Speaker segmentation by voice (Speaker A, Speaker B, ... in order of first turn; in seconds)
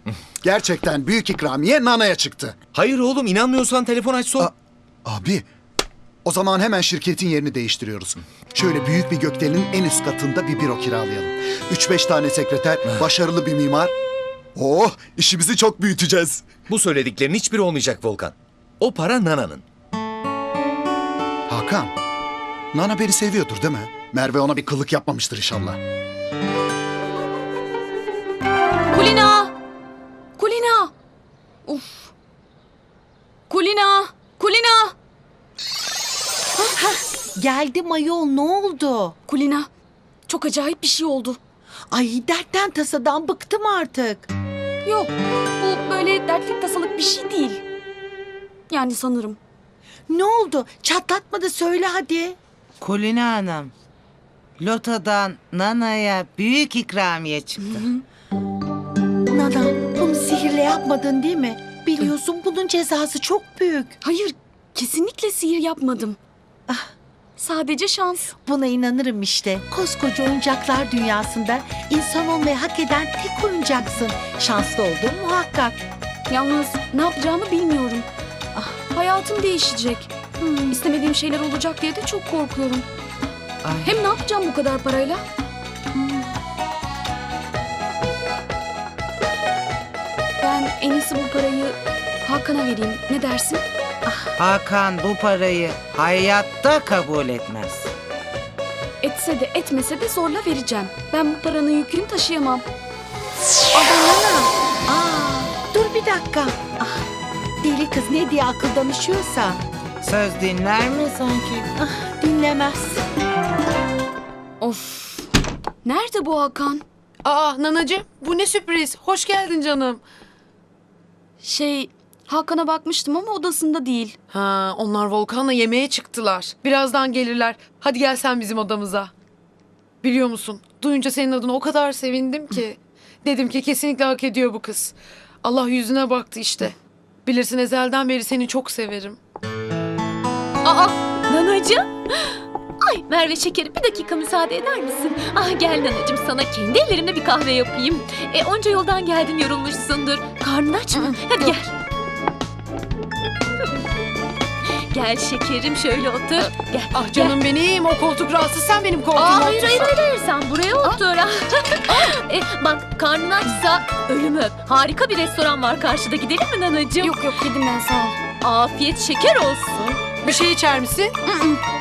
Speaker A: 0.4-2.5, 5.0-5.4, 6.2-13.9, 14.5-16.4, 21.5-21.9, 22.7-25.8
Speaker B: 2.7-4.5, 16.7-19.6
Speaker C: 28.9-29.5, 30.4-30.9, 31.6-32.1, 33.5-34.9, 39.2-39.7, 40.3-41.4, 44.8-47.6, 48.7-49.4, 64.0-66.2, 67.4-68.3, 76.3-78.1, 78.9-80.1, 80.7-82.8, 83.8-85.2, 90.4-93.6, 99.0-102.6, 114.6-115.3, 115.8-116.8, 121.4-124.2, 167.0-168.2, 171.3-171.6
Speaker D: 36.8-39.1, 41.9-44.3, 50.1-52.4, 59.3-64.0, 68.4-75.8, 80.4-80.8, 85.9-86.2, 103.7-107.0, 107.6-109.6, 111.8-113.0
Speaker E: 52.8-53.7, 54.6-57.8, 94.4-97.9, 110.0-111.7
Speaker F: 117.2-120.0, 124.3-129.1, 130.0-136.7, 137.2-139.2, 156.9-159.9, 170.2-171.1
Speaker G: 140.6-142.3, 142.8-151.7, 154.9-157.4, 159.1-167.2, 168.4-169.8